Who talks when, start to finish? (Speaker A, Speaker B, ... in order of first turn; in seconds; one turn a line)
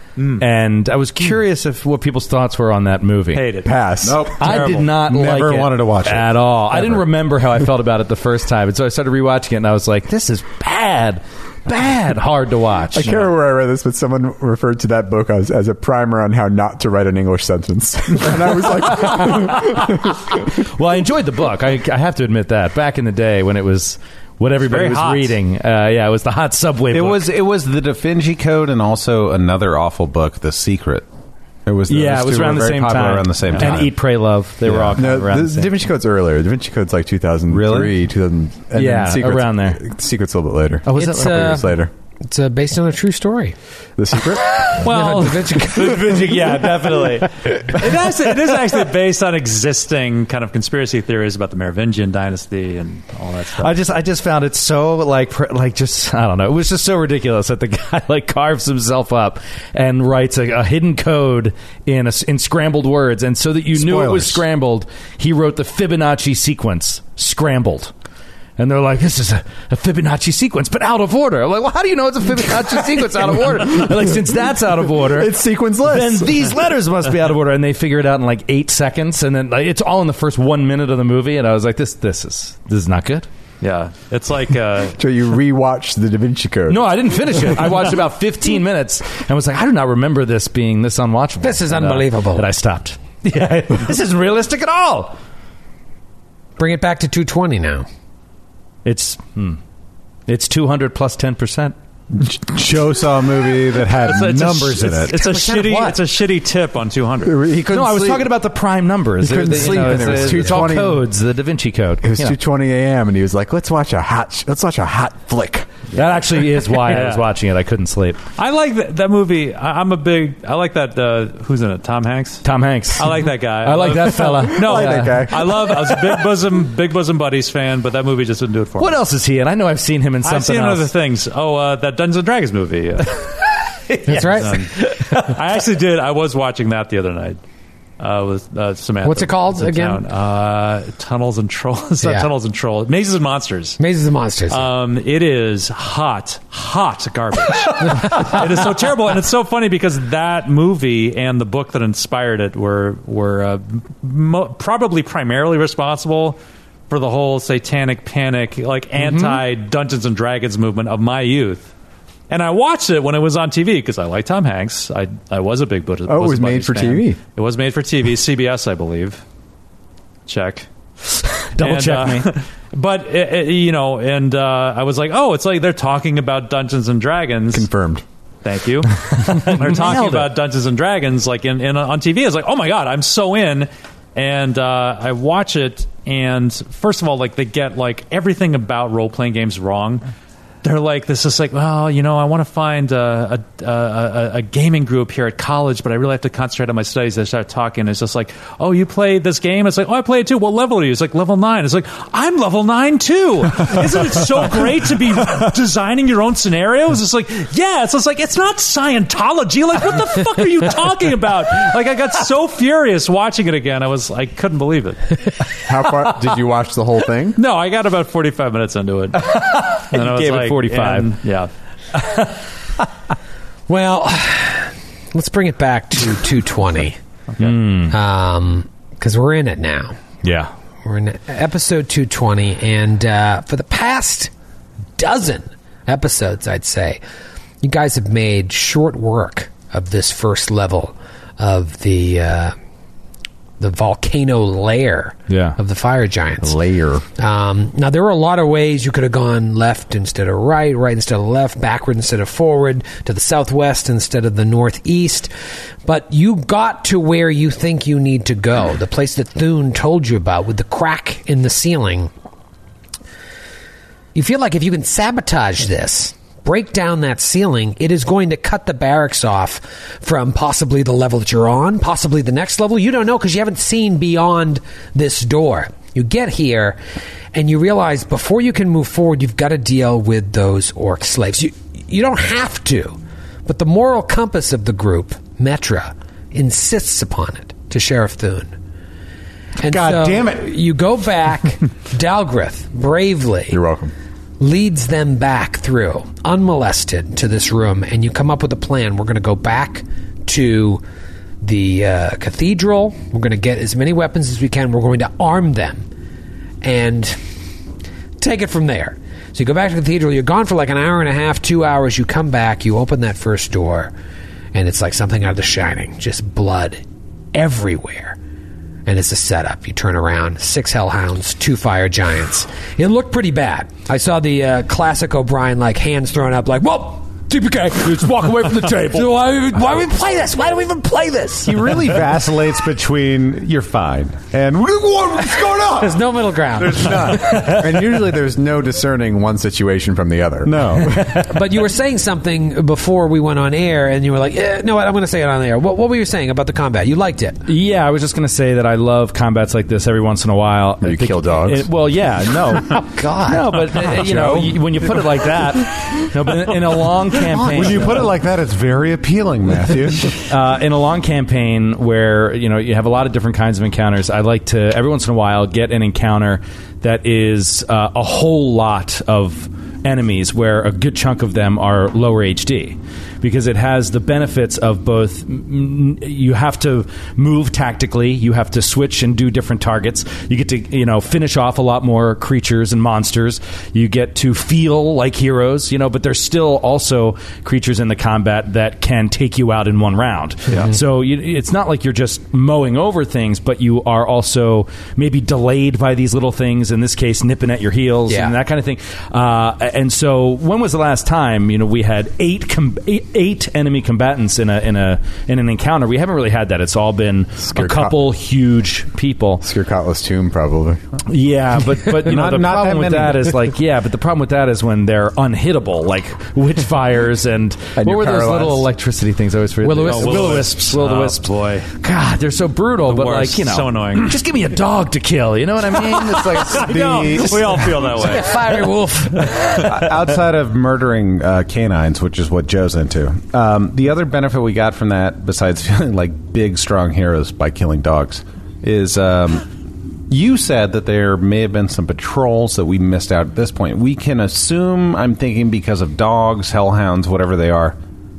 Speaker A: 0.2-0.4
Speaker B: 0.4-3.5
Speaker A: 3.3-3.7
Speaker C: 3.6-4.3
Speaker D: 4.0-7.0
Speaker B: 4.4-13.2
Speaker A: 4.4-4.9
Speaker C: 12.9-20.4
Speaker B: 18.7-27.3
Speaker A: 24.6-25.4
Speaker D: 26.9-31.1
Speaker D: 31.7-34.0
Speaker B: 31.9-35.7
Speaker A: 33.5-33.8
Speaker D: 34.6-35.0
Speaker C: 35.0-41.9
Speaker D: 37.5-37.9
Speaker B: 38.7-39.8
Speaker B: 40.9-41.5
Speaker E: 41.0-41.7
Speaker E: 42.2-43.6
Speaker C: 44.0-44.6
Speaker E: 44.8-46.0
Speaker A: 44.8-46.1
Speaker B: 44.8-47.4
Speaker A: 47.7-53.8
Speaker B: 53.6-67.9
Speaker C: 63.7-64.4
Speaker B: 68.6-83.3
Speaker C: 73.3-74.2
Speaker C: 74.9-76.5
Speaker A: 83.6-85.0
Speaker C: 85.0-86.9
Speaker B: 86.7-95.1
Speaker E: 91.4-92.5
Speaker E: 96.6-97.9
Speaker B: 98.8-99.6
Speaker B: 100.3-101.8
Speaker D: 102.2-105.2
Speaker A: 104.0-107.4
Speaker E: 105.1-106.0
Speaker C: 107.2-108.3
Speaker B: 107.7-112.4
Speaker C: 109.2-111.1
Speaker C: 112.0-115.8
Speaker B: 115.9-118.2
Speaker A: 116.8-117.2
Speaker A: 118.4-122.5
Speaker B: 122.4-125.5
Speaker A: 123.0-129.0
Speaker C: 124.5-126.0
Speaker B: 128.8-130.9
Speaker A: 130.2-133.3
Speaker B: 133.9-135.4
Speaker E: 134.1-134.6
Speaker A: 134.2-137.4
Speaker A: 138.0-143.8
Speaker E: 139.1-140.0
Speaker E: 142.0-142.3
Speaker E: 143.8-144.7
Speaker A: 144.5-161.7
Speaker A: 162.3-169.2
Speaker C: 166.1-167.2
Speaker A: 170.3-170.7
Speaker B: 171.5-172.3
Speaker A: 171.6-177.7
Speaker C: 177.5-178.0
Speaker A: 178.4-190.1
Speaker B: 179.2-180.3
Speaker A: 190.6-215.1
Speaker C: 215.7-217.4
Speaker A: 217.4-221.5
Speaker B: 219.3-221.1
Speaker E: 223.7-227.0
Speaker B: 227.4-228.0
Speaker E: 227.9-230.0
Speaker B: 230.2-230.5
Speaker E: 230.8-234.3
Speaker E: 235.0-237.0
Speaker E: 237.6-242.6
Speaker E: 243.6-246.6
Speaker B: 245.3-245.6
Speaker C: 246.6-247.0
Speaker E: 247.2-255.3
Speaker E: 255.8-262.1
Speaker E: 264.1-276.8
Speaker E: 277.3-288.5
Speaker E: 289.6-293.6
Speaker D: 289.7-290.4
Speaker C: 293.5-293.9
Speaker E: 294.4-300.8
Speaker E: 301.4-305.9
Speaker E: 306.6-307.2
Speaker E: 308.2-313.9
Speaker E: 314.5-316.8
Speaker E: 317.3-318.2
Speaker E: 318.9-331.6
Speaker B: 328.2-328.8
Speaker D: 331.4-336.0
Speaker E: 335.8-337.3
Speaker D: 336.6-337.3
Speaker C: 336.7-341.2
Speaker D: 340.4-341.0
Speaker E: 341.2-347.4
Speaker B: 347.5-358.1
Speaker C: 350.8-351.7
Speaker E: 352.7-354.0
Speaker C: 354.1-354.5
Speaker D: 357.4-359.8
Speaker C: 357.5-358.2
Speaker C: 359.5-360.1
Speaker B: 360.3-409.4
Speaker E: 398.1-398.4
Speaker C: 407.4-408.0
Speaker C: 409.4-410.8
Speaker B: 411.1-427.7
Speaker D: 411.9-413.5
Speaker C: 417.8-418.7
Speaker A: 419.8-421.7
Speaker A: 422.9-424.1
Speaker A: 426.2-428.4
Speaker C: 426.6-427.3
Speaker D: 426.7-427.4
Speaker E: 428.0-429.6
Speaker D: 429.6-439.5
Speaker D: 440.1-447.8